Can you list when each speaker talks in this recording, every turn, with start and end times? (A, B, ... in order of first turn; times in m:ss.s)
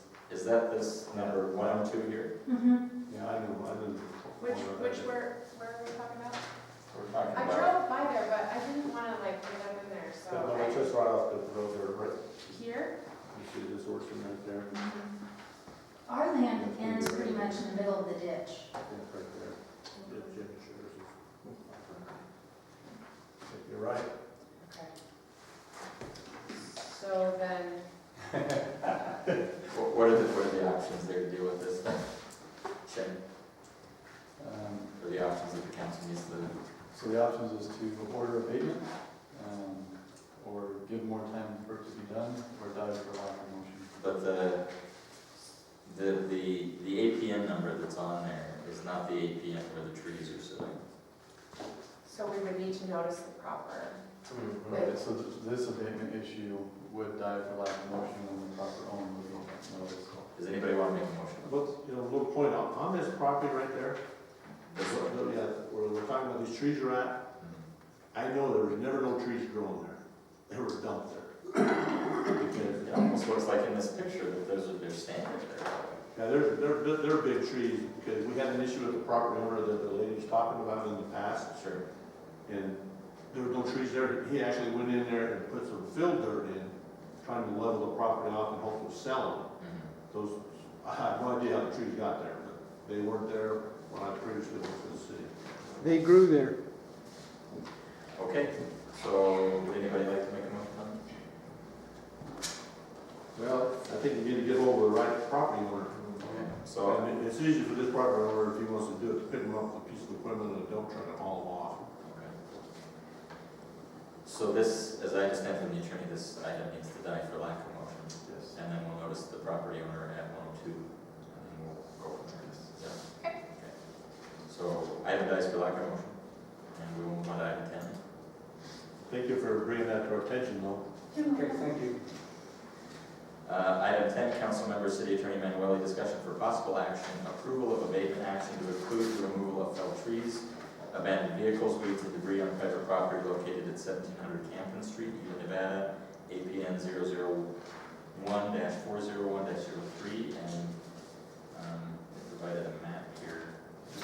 0:00.3-0:02.3 A
0:01.1-0:01.9 B
0:02.4-0:02.8 C
0:03.1-0:05.1 B
0:04.4-0:06.4 D
0:07.1-0:07.7 A
0:07.3-0:10.9 D
0:10.3-0:12.3 B
0:12.4-0:12.9 D
0:13.3-0:14.7 B
0:14.7-0:15.1 C
0:16.0-0:18.7 C
0:16.5-0:17.6 B
0:18.8-0:21.1 B
0:23.4-0:24.1 B
0:24.6-0:24.9 D
0:26.5-0:27.8 D
0:29.7-0:33.2 A
0:34.4-0:34.9 E
0:34.9-0:36.6 A
0:36.9-0:43.9 E
0:43.9-0:44.7 A
0:45.8-0:50.8 A
0:52.0-0:54.0 D
0:54.3-0:54.6 A
0:54.6-0:54.9 D
0:54.6-1:00.3 E
1:00.3-1:01.6 A
1:01.4-1:04.0 B
1:04.7-1:05.1 A
1:04.8-1:07.2 B
1:07.4-1:07.6 A
1:08.1-1:12.8 B
1:12.6-1:16.0 A
1:16.1-1:21.5 B
1:21.5-1:21.8 A
1:22.4-1:29.5 B
1:29.6-1:29.9 A
1:30.1-1:36.5 B
1:38.1-1:41.0 A
1:43.3-1:51.9 B
1:46.2-1:47.0 A
1:52.0-1:52.3 A
1:54.2-2:08.0 A
2:09.1-2:10.8 B
2:11.1-2:11.6 C
2:11.3-2:11.8 D
2:13.4-2:33.5 A